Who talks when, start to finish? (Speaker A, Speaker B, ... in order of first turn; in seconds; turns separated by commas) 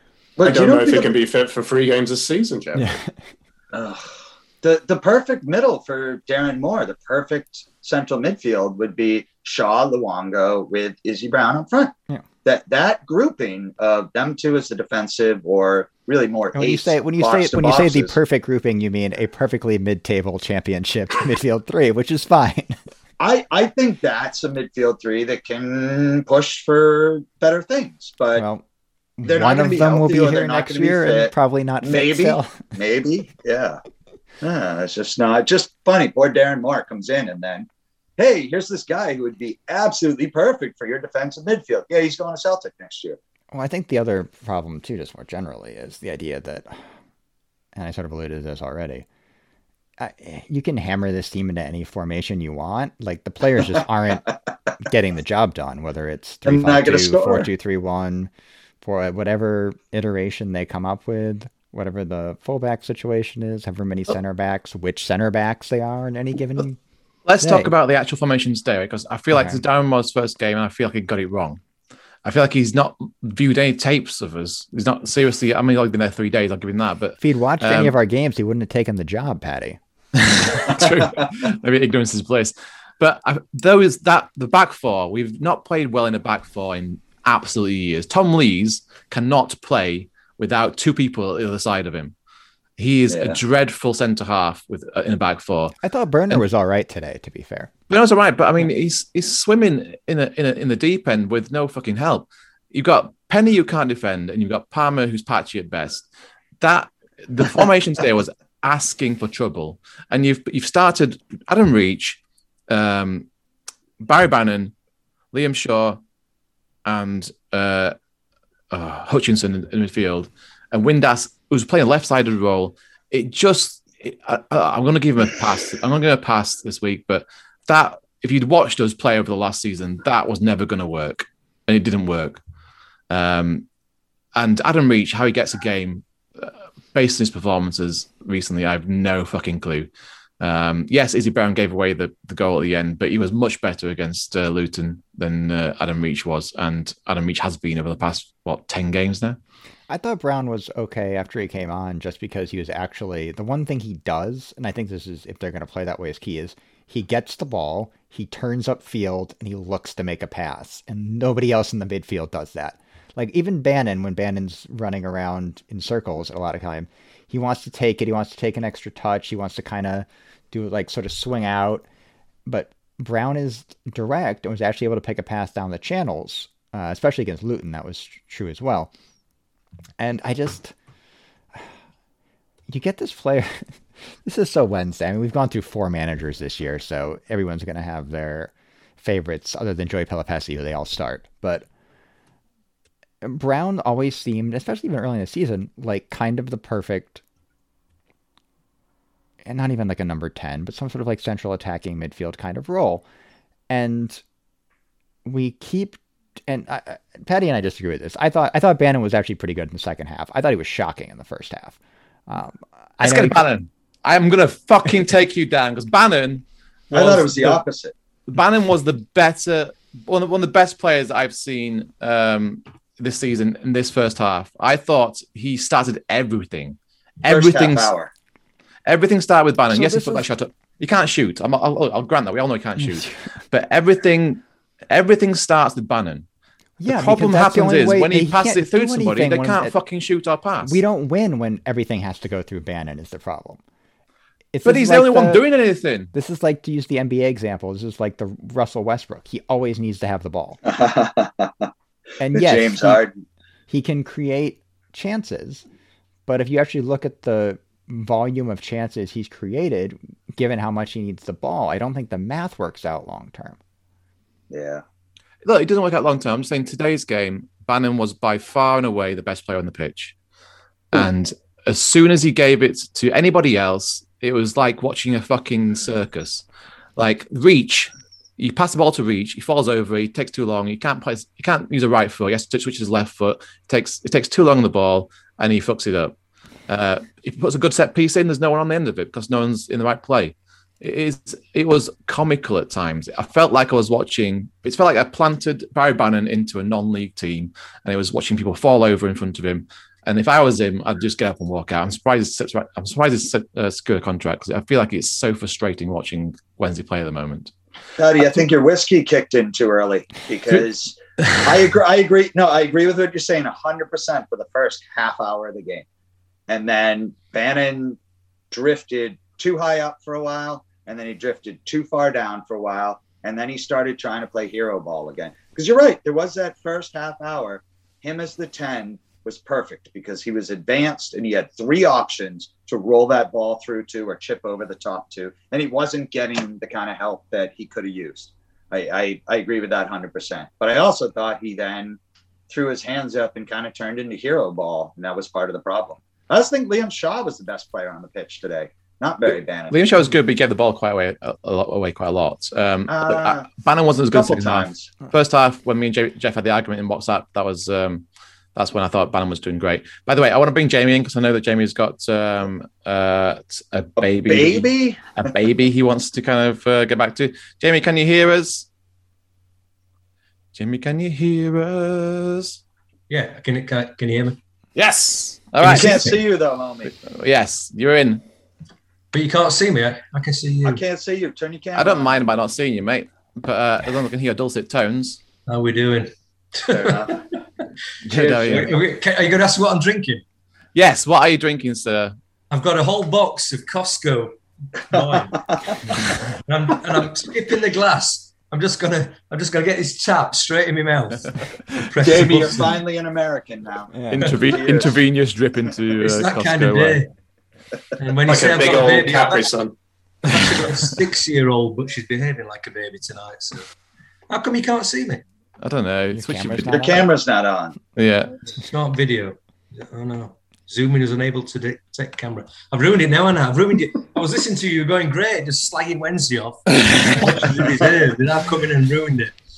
Speaker A: 0.4-1.1, Speaker B: 0.4-3.0, Speaker C: 2.8-3.1, Speaker A: 3.7-18.1, Speaker C: 16.5-22.8, Speaker A: 23.2-28.4, Speaker C: 28.4-28.6, Speaker C: 29.2-32.6, Speaker A: 29.3-33.8, Speaker A: 34.4-37.7, Speaker A: 38.2-43.2, Speaker C: 43.5-46.8, Speaker C: 47.8-49.1, Speaker C: 50.0-54.3, Speaker C: 54.8-58.3, Speaker A: 56.5-57.5, Speaker C: 58.8-66.8, Speaker D: 67.3-71.6, Speaker C: 67.4-67.7, Speaker C: 69.3-69.6, Speaker D: 72.2-78.0, Speaker C: 77.2-79.8, Speaker D: 80.2-92.1, Speaker D: 92.8-95.8, Speaker A: 93.1-93.4, Speaker C: 95.8-97.7, Speaker D: 97.9-106.1, Speaker D: 106.6-113.3, Speaker D: 114.0-114.7, Speaker D: 115.3-116.0, Speaker D: 116.9-118.0, Speaker D: 118.7-132.4, Speaker D: 133.1-133.7, Speaker D: 134.3-139.9, Speaker D: 140.4-149.4, Speaker C: 149.9-171.9, Speaker C: 172.5-178.9, Speaker C: 180.0-180.8, Speaker C: 182.7-191.7, Speaker C: 193.2-197.2, Speaker C: 199.4-203.1, Speaker C: 203.7-204.2, Speaker C: 205.2-213.4, Speaker D: 213.0-217.6, Speaker A: 216.9-217.9, Speaker D: 218.3-227.9, Speaker A: 227.3-228.1, Speaker D: 228.9-236.2, Speaker C: 229.7-230.3, Speaker C: 232.8-233.1, Speaker C: 236.8-239.7, Speaker D: 236.9-240.8, Speaker C: 240.6-243.6, Speaker C: 244.5-245.4, Speaker D: 244.6-246.1, Speaker C: 246.1-250.6, Speaker A: 250.7-251.7, Speaker C: 252.2-253.0, Speaker A: 252.3-253.1, Speaker C: 253.7-255.7, Speaker C: 256.3-263.6, Speaker A: 264.5-264.8, Speaker D: 265.4-270.2, Speaker D: 270.9-276.4, Speaker D: 277.0-286.1, Speaker D: 286.7-307.5, Speaker A: 308.0-315.9, Speaker A: 316.5-318.0, Speaker A: 318.5-349.8, Speaker D: 349.7-368.7, Speaker A: 352.9-353.5, Speaker A: 354.1-354.9, Speaker A: 364.0-365.3, Speaker D: 370.6-372.6, Speaker E: 373.1-374.4, Speaker D: 374.8-376.0, Speaker E: 375.6-376.2, Speaker A: 375.6-376.9, Speaker D: 376.9-378.2, Speaker E: 379.1-380.8, Speaker A: 380.6-382.1, Speaker D: 381.8-385.2, Speaker E: 385.5-387.4, Speaker A: 386.7-387.2, Speaker D: 388.1-388.8, Speaker A: 388.1-388.8, Speaker E: 388.4-390.2, Speaker D: 390.8-392.2, Speaker E: 392.5-402.8, Speaker A: 394.9-395.8, Speaker A: 402.0-405.0, Speaker C: 403.9-404.3, Speaker D: 404.1-407.1, Speaker E: 406.0-407.1, Speaker E: 408.0-409.4, Speaker B: 408.2-409.8, Speaker E: 410.3-413.6, Speaker E: 414.3-415.2, Speaker D: 415.6-417.1, Speaker C: 416.1-417.1, Speaker A: 416.7-417.8, Speaker D: 418.0-418.4, Speaker E: 418.6-429.3, Speaker D: 426.8-427.2